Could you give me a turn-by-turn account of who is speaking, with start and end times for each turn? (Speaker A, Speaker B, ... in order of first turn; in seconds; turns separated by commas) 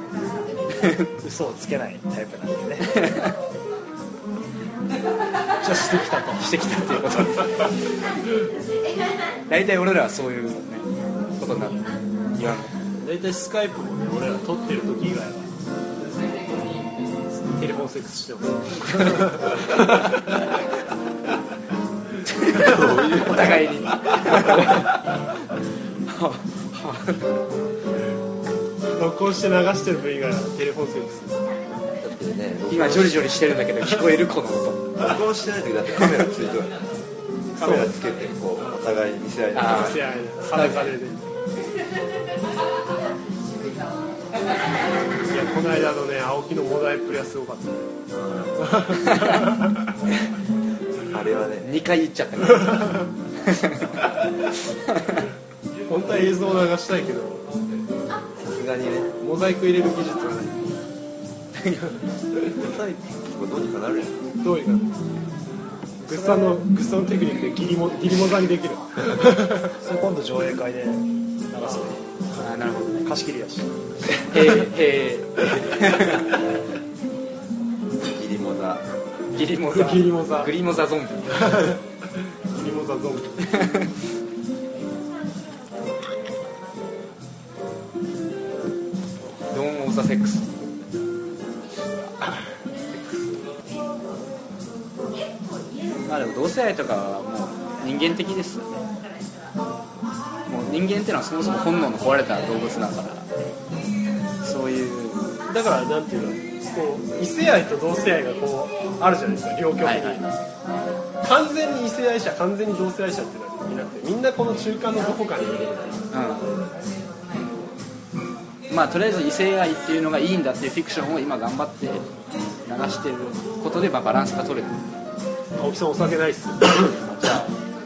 Speaker A: 0.8-1.1, Speaker B: 1.2-3.1, Speaker A: 2.9-3.3, Speaker C: 5.6-6.5, Speaker A: 6.4-7.8, Speaker A: 9.5-12.8, Speaker C: 12.9-15.5, Speaker C: 17.4-20.2, Speaker A: 22.4-24.9, Speaker D: 22.5-24.8, Speaker A: 26.1-27.3, Speaker C: 28.9-31.4, Speaker D: 32.0-33.4, Speaker A: 32.7-34.9, Speaker D: 35.0-36.8, Speaker D: 37.5-40.2, Speaker C: 37.6-37.9, Speaker A: 39.5-40.9, Speaker C: 39.6-41.2, Speaker C: 45.2-47.9, Speaker D: 48.1-48.9, Speaker C: 48.6-49.5, Speaker D: 51.1-51.7, Speaker A: 51.6-54.0, Speaker C: 55.9-57.5, Speaker D: 58.4-59.1, Speaker C: 59.2-60.7, Speaker A: 61.6-61.9, Speaker D: 62.5-64.2, Speaker C: 64.4-64.9, Speaker B: 66.0-66.6, Speaker C: 66.1-69.7, Speaker B: 69.8-72.0, Speaker C: 71.6-72.1, Speaker A: 72.4-73.1, Speaker B: 73.0-73.7, Speaker A: 74.2-76.2, Speaker D: 78.0-78.8, Speaker A: 79.3-81.4, Speaker C: 79.7-80.5, Speaker C: 81.3-81.8, Speaker C: 82.5-83.4, Speaker A: 89.5-90.6, Speaker A: 96.0-98.7, Speaker A: 100.5-103.3, Speaker A: 104.4-105.2, Speaker C: 105.5-110.3, Speaker A: 109.8-110.2, Speaker C: 111.2-116.1, Speaker A: 116.1-116.4, Speaker A: 118.7-122.0, Speaker A: 122.6-124.8, Speaker C: 125.5-126.7, Speaker A: 127.0-127.5